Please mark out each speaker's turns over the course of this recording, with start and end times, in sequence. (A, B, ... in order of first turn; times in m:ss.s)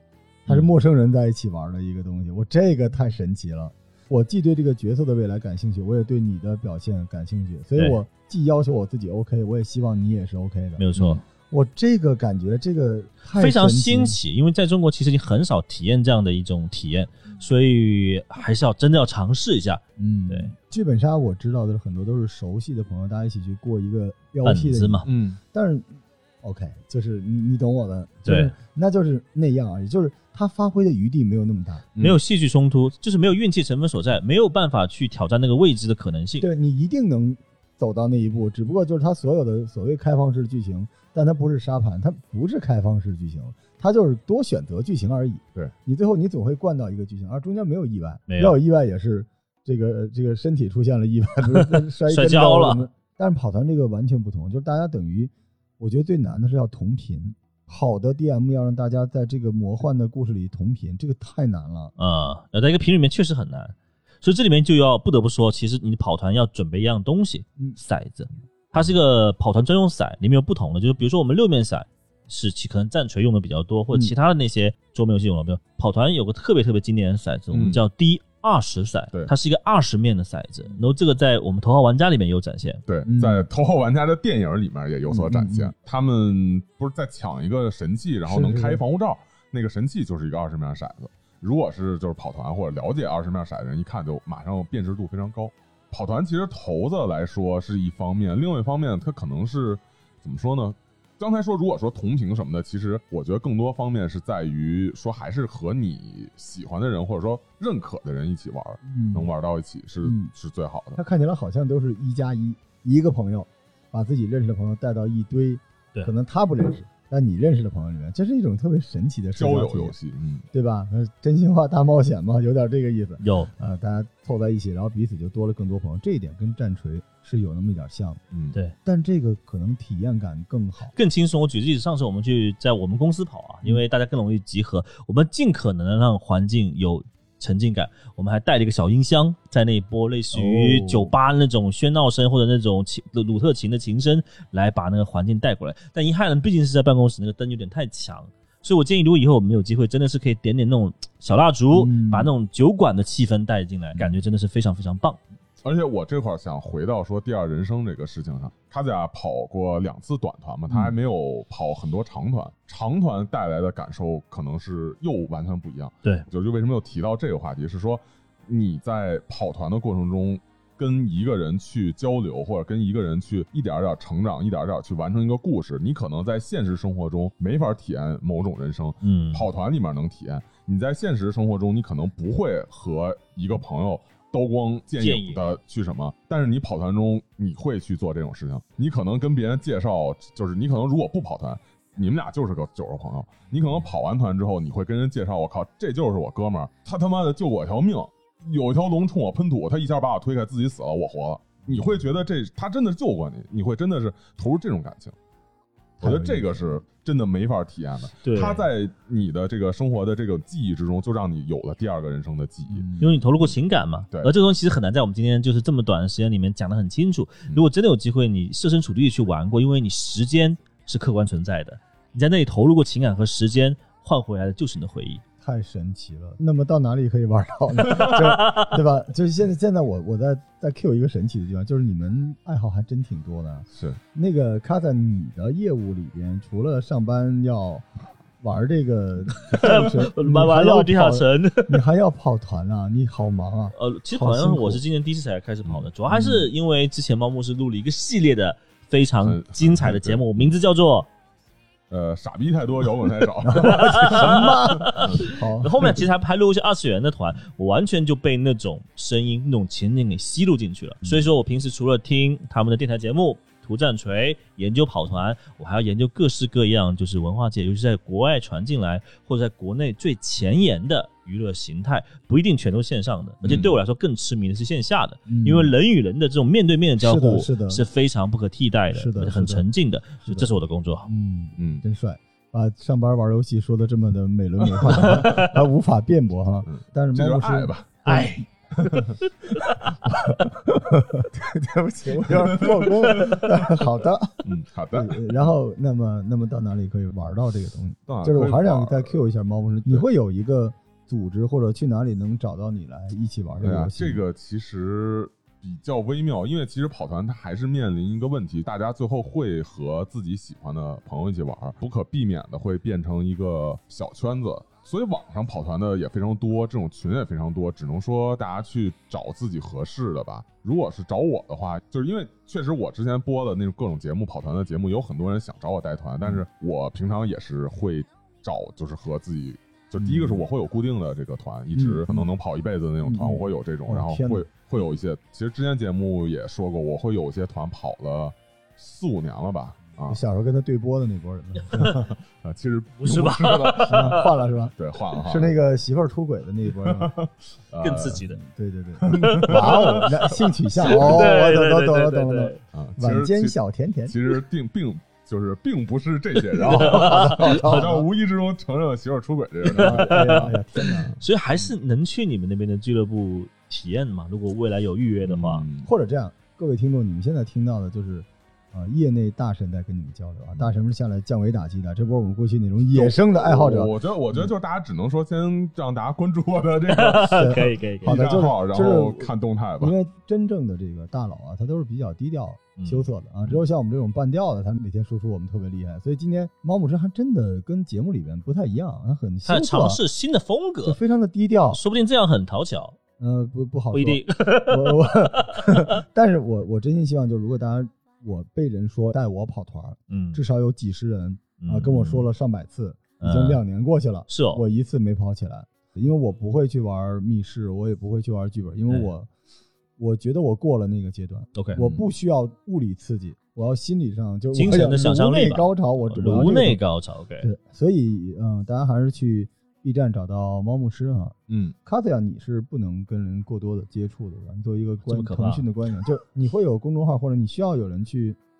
0:00.4-0:14.2 A
0:10.8-0:11.2 B
0:13.3-0:20.5 B
0:20.0-0:31.9 A
0:24.4-0:25.1 B
0:25.1-0:25.4 C
0:28.2-0:28.6 B
0:32.0-0:36.5 B
0:36.4-1:01.9 A
0:48.3-0:48.6 B
0:51.5-0:52.9 B
1:02.0-1:22.8 B
1:17.5-1:17.8 C
1:22.9-1:51.0 C
1:23.1-1:23.5 A
1:25.1-1:25.7 A
1:28.3-1:28.8 A
1:48.8-1:49.3 A
1:50.0-1:50.3 A
1:51.0-2:00.0 A
1:59.3-2:00.5 C
2:00.5-2:08.2 A
2:03.2-2:03.5 B
2:08.3-2:08.6 C
2:08.8-2:11.0 A
2:11.0-2:35.2 B
2:20.3-2:21.2 A
2:31.7-2:32.3 A
2:35.6-3:25.2 C
2:59.0-2:59.5 B
3:05.0-3:05.6 B
3:21.7-3:22.0 A
3:26.0-3:32.9 C
3:26.0-3:26.7 A
3:28.2-3:28.7 B
3:32.7-3:33.2 A
3:33.0-3:45.2 B
3:45.4-4:04.8 A
3:53.8-3:54.0 C
3:59.4-4:01.8 B
4:03.7-4:11.1 B
4:06.1-4:06.5 A
4:09.2-4:10.6 C
4:11.9-4:15.2 C
4:13.4-4:16.0 A
4:13.6-4:41.1 B
4:33.4-4:33.8 C
4:35.3-4:35.7 A
4:37.0-4:37.8 A
4:38.9-4:39.7 A
4:41.0-4:48.4 A
4:41.6-4:41.8 C
4:45.0-4:45.5 B
4:46.7-4:48.1 C
4:48.1-4:48.4 B
4:48.8-4:49.2 C
4:50.1-5:04.2 A
4:52.2-4:53.8 C
4:54.4-4:55.3 C
4:58.1-4:59.2 C
5:03.6-5:40.2 C
5:30.0-5:30.4 A
5:31.7-5:32.3 A
5:33.0-5:34.5 A
5:40.0-5:42.1 A
5:41.8-5:44.2 C
5:43.0-5:44.3 B
5:43.8-5:47.2 A
5:44.8-5:45.5 C
5:46.8-5:48.2 C
5:47.8-5:48.4 B
5:48.3-5:54.2 A
5:49.1-5:50.3 C
5:49.1-5:52.6 B
5:50.8-5:51.3 C
5:52.7-5:53.6 C
5:54.1-6:01.2 C
5:56.6-5:57.9 B
5:56.6-5:58.1 A
5:59.7-6:05.7 B
5:59.7-6:01.2 A
6:05.2-6:05.9 C
6:05.8-6:14.5 A
6:12.9-6:20.0 C
6:16.9-6:18.1 B
6:17.3-6:30.0 A
6:22.8-6:23.1 B
6:29.5-6:31.0 B
6:30.8-6:31.8 A
6:31.7-6:33.0 B
6:33.2-6:49.3 A
6:33.9-6:35.8 B
6:40.1-6:40.4 B
6:41.6-6:42.3 B
6:43.2-6:43.6 B
6:44.3-6:44.6 B
6:50.0-6:56.8 A
6:51.6-6:52.0 B
6:54.5-6:57.5 B
6:57.4-7:08.4 A
7:01.5-7:01.8 C
7:05.0-7:05.7 B